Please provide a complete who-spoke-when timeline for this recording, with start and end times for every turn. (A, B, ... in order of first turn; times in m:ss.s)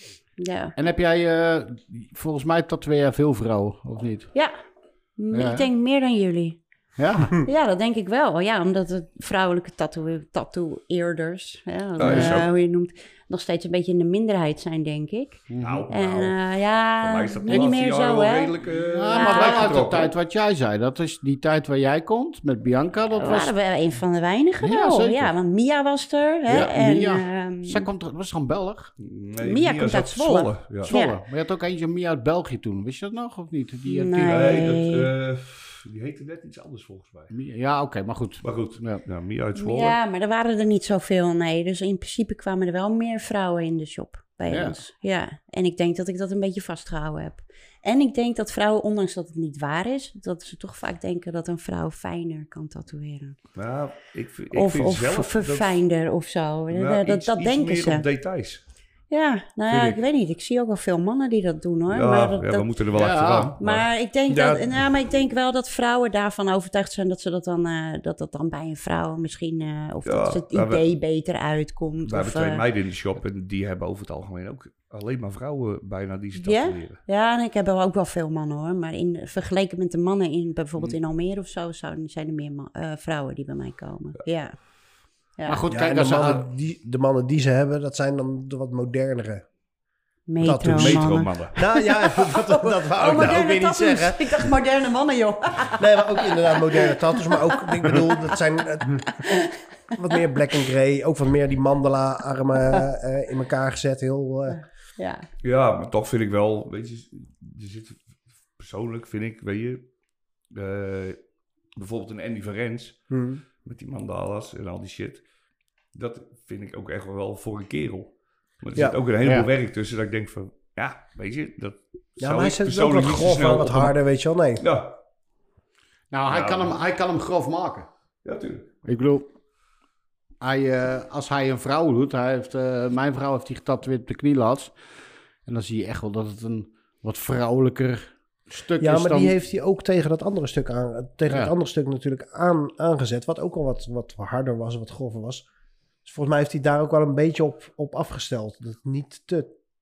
0:00.4-0:00.7 A
0:00.8-0:04.3 B
0:05.2-0:06.6 A
0:05.3-0:05.7 B
0:07.0-0:07.4 B
0:07.4-0:18.5 A
0:12.0-0:12.5 C
0:12.0-0:12.4 B
0:15.5-0:15.8 B
0:15.6-0:16.4 C
0:17.0-0:20.1 C
0:18.9-0:23.5 B
0:19.1-0:19.7 A
0:23.2-0:27.9 A
0:24.6-0:25.3 B
0:26.5-0:28.9 B
0:29.0-0:30.9 C
0:29.4-0:31.2 A
0:30.8-0:34.5 B
0:33.8-0:35.1 A
0:34.2-0:37.3 C
0:37.3-0:39.0 B
0:38.4-0:40.0 C
0:39.6-0:53.4 A
0:44.5-0:44.8 B
0:53.6-0:55.8 C
0:54.5-0:58.0 A
0:56.7-0:58.6 C
0:59.1-1:02.7 A
0:59.7-1:00.0 C
1:01.9-1:03.9 C
1:02.9-1:03.5 B
1:03.6-1:12.6 A
1:04.3-1:04.6 D
1:10.0-1:10.8 C
1:12.0-1:17.0 C
1:16.4-1:24.6 A
1:25.4-1:26.4 B
1:25.7-1:29.4 D
1:30.3-1:38.2 A
1:30.4-1:34.5 D
1:30.7-1:31.6 C
1:35.8-1:39.4 D
1:39.2-1:39.5 A
1:39.9-1:44.6 D
1:44.5-1:45.2 A
1:45.4-1:48.0 C
1:48.6-1:49.8 C
1:50.5-1:51.2 C
1:51.7-1:53.0 C
1:53.1-1:53.4 D
1:53.5-1:55.2 C
1:55.9-2:04.0 C
1:59.2-1:59.5 B
2:02.2-2:04.6 D
2:04.6-2:05.0 C
2:06.1-2:07.9 B
2:06.3-2:06.7 C
2:08.2-2:08.7 C
2:08.8-2:09.3 B
2:10.4-2:14.7 B
2:15.4-2:19.3 B
2:18.8-2:25.4 D
2:26.0-2:29.5 D